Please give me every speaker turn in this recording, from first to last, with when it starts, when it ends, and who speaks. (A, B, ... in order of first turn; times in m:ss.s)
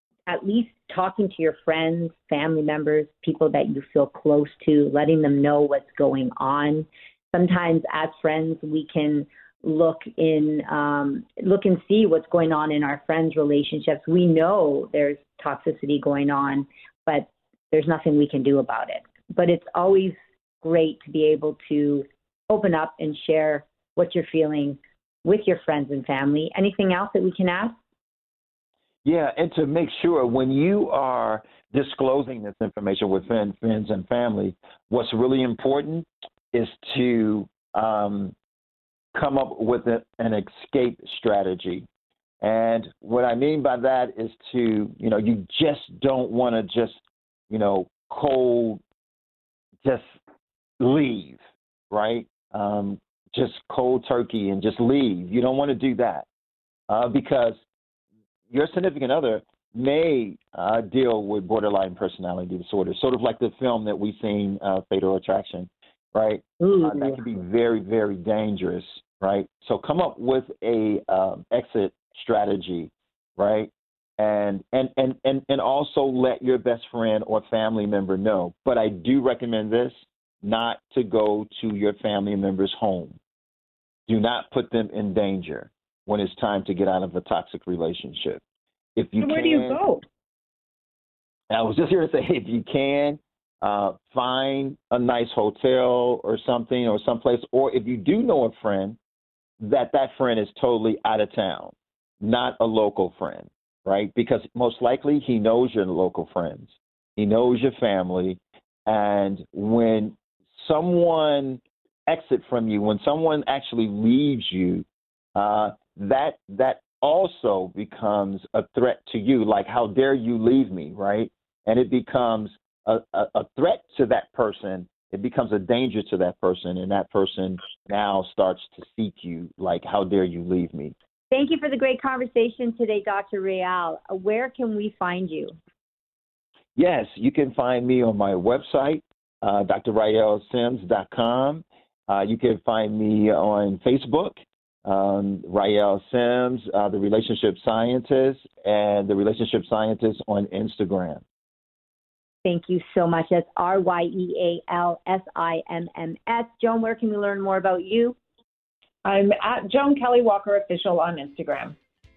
0:00.3-0:27.8 A
0:29.0-0:38.3 B
0:39.1-0:41.9 B
0:42.4-0:48.8 B
0:49.8-0:50.2 B
0:50.8-0:56.2 B
0:56.9-0:57.6 B
0:58.5-1:23.2 B
1:06.6-1:07.2 A
1:24.1-1:28.4 B
1:29.0-1:29.8 B
1:29.2-1:30.0 C
1:31.5-1:39.0 B
1:39.6-2:10.9 B
2:11.3-2:15.6 A
2:16.8-2:31.2 B
2:32.4-2:38.2 A
2:39.0-2:41.8 C